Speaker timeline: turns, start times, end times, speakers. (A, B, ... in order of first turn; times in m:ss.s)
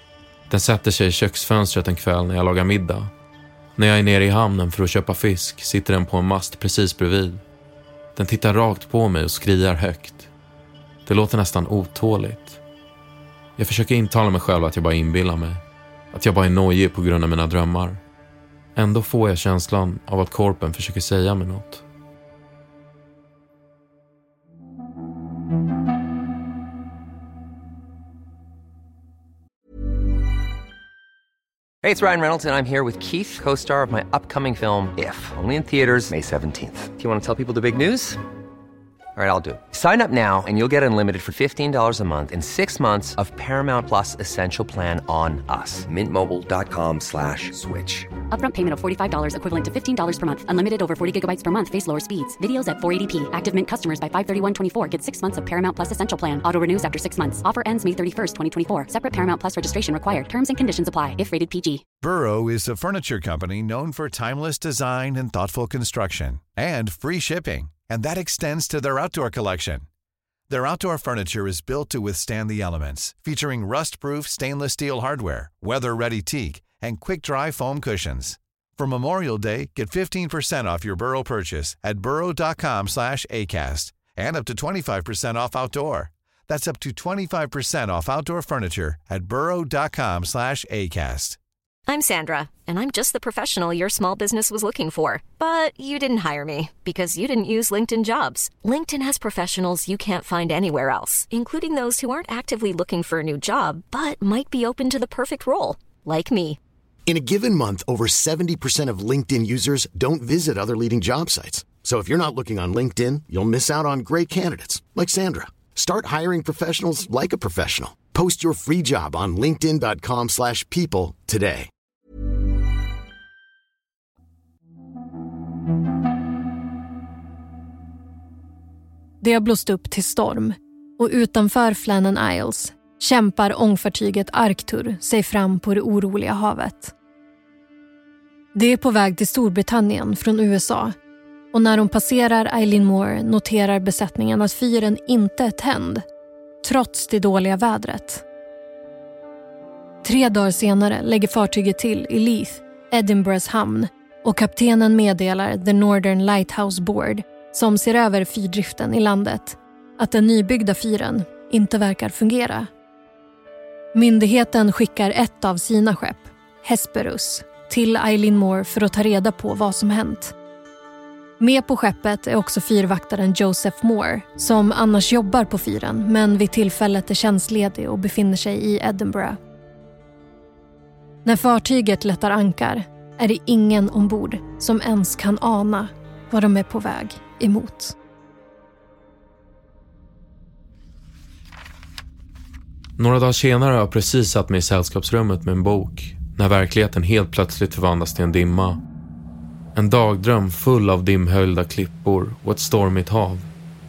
0:00.5-0:03.1 A
0:03.8-0:07.4 A
0:08.1-0:10.3 A
0:11.0-0:12.6 A
0:13.6-0:18.0 A
0:18.7-0:21.8 A
0:31.8-0:38.2 B
0:39.2-0:48.1 B
0:48.3-1:01.8 C
1:02.0-1:09.8 D
1:10.5-1:31.4 D
1:31.9-1:46.6 E
1:47.0-2:01.7 F
2:09.2-2:16.9 G
2:18.5-2:20.9 G
2:21.5-2:26.0 G
2:26.6-2:28.2 G
2:30.0-2:42.7 G
2:43.9-2:50.3 G
2:51.4-2:59.4 G
3:01.2-3:08.0 G
3:13.0-3:18.8 A
3:19.7-3:23.5 A